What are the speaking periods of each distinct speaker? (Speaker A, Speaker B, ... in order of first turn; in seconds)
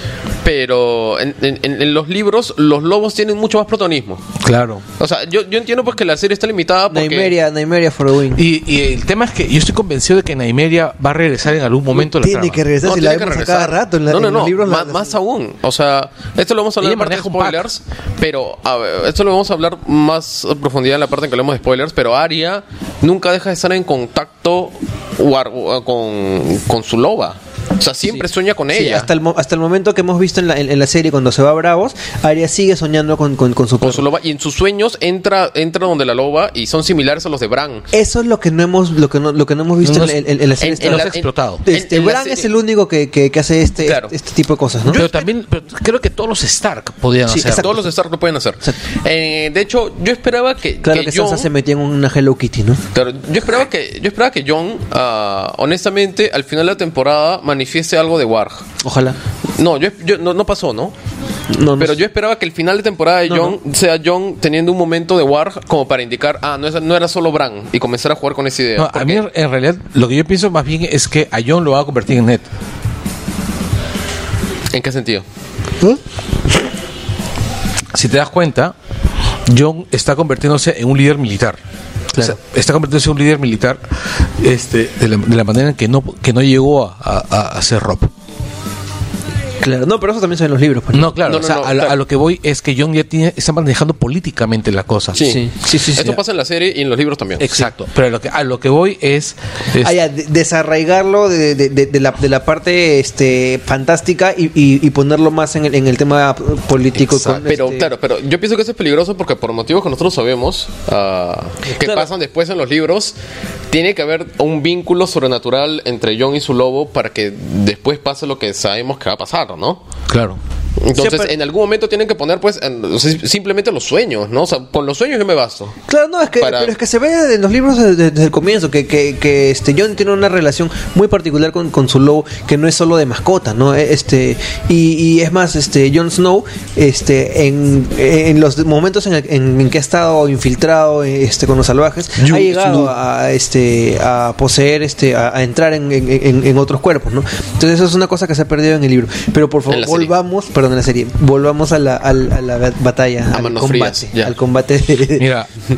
Speaker A: 0.4-4.2, 5.0-7.3, 12.8-29.1, 33.8-37.9, 40.6-42.5, 43.8-44.1, 44.9-45.2, 47.4-51.5, 52.9-58.6, 59.6-60.9, 61.8-69.2, 74.7-75.2, 91.2-91.9, 95.1-97.6, 107.3-113.1, 113.7-119.8, 120.8-125.8, 126.4-126.7, 149.7-150.1, 153.3-154.3
Speaker B: 4.4-4.8, 8.3-12.6, 16.8-17.6, 39.8-40.2, 40.8-41.6, 44.9-47.7, 68.8-72.4, 77.9-78.7, 79.5-81.6, 82.2-88.1, 90.9-95.2, 97.4-100.0, 120.1-120.4, 142.2-142.9, 155.2-155.5
Speaker C: 6.9-8.4, 11.9-15.1, 28.1-34.0, 37.9-41.1, 41.6-45.0, 47.3-47.8, 50.8-52.8, 58.8-59.2, 61.5-62.0, 63.3-63.6, 89.6-91.2, 95.2-96.2, 99.8-107.9, 111.6-112.1, 121.0-121.3, 125.9-155.3